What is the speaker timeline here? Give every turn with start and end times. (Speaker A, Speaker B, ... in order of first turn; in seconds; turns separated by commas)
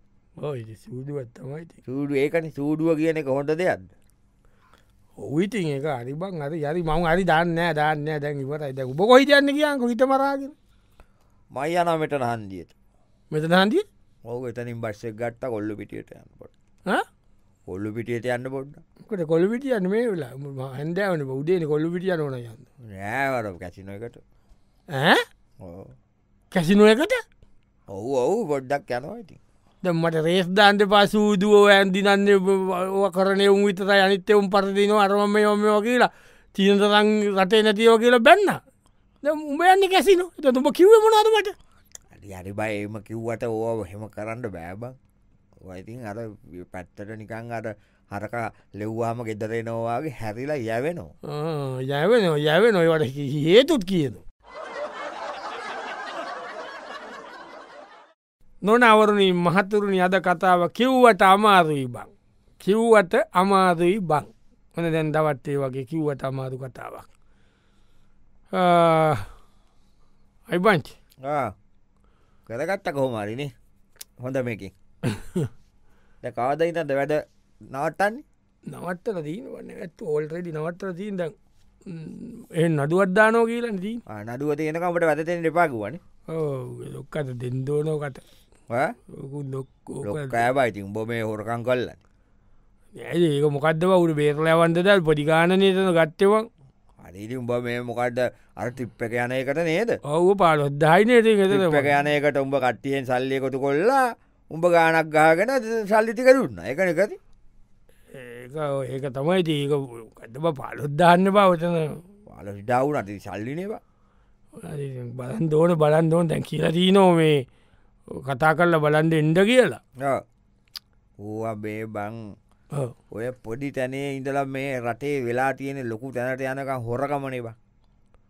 Speaker A: 0.4-1.8, Speaker B: 1.9-3.9, Speaker A: 5.2-10.6, Speaker B: 11.5-12.7, Speaker A: 13.3-13.8, Speaker B: 14.3-16.5, Speaker B: 17.7-18.8, Speaker A: 19.1-22.7, Speaker B: 22.9-24.2, Speaker A: 24.9-25.2, Speaker B: 25.6-25.9, Speaker A: 26.5-27.2, Speaker B: 27.9-29.4, Speaker A: 29.8-38.6, Speaker A: 39.2-41.5, Speaker B: 42.1-45.0, Speaker B: 45.7-51.1, Speaker A: 51.3-54.2, Speaker A: 58.6-62.1, Speaker A: 62.6-67.1, Speaker A: 68.5-69.3, Speaker A: 70.5-71.0, Speaker B: 71.2-71.5, Speaker B: 72.5-73.5, Speaker B: 74.2-74.7, Speaker A: 75.1-75.5, Speaker B: 76.2-78.2, Speaker A: 78.7-81.3, Speaker A: 81.9-84.0, Speaker B: 84.1-86.0, Speaker A: 86.3-88.2, Speaker B: 88.7-89.0, Speaker A: 89.1-90.5, Speaker B: 90.0-92.0, Speaker A: 93.0-96.5, Speaker B: 97.0-100.0, Speaker A: 100.1-101.9, Speaker B: 101.5-107.2, Speaker A: 108.1-112.0, Speaker B: 112.3-113.8, Speaker A: 114.6-117.4, Speaker A: 118.1-119.8, Speaker B: 121.2-122.3, Speaker B: 123.1-127.5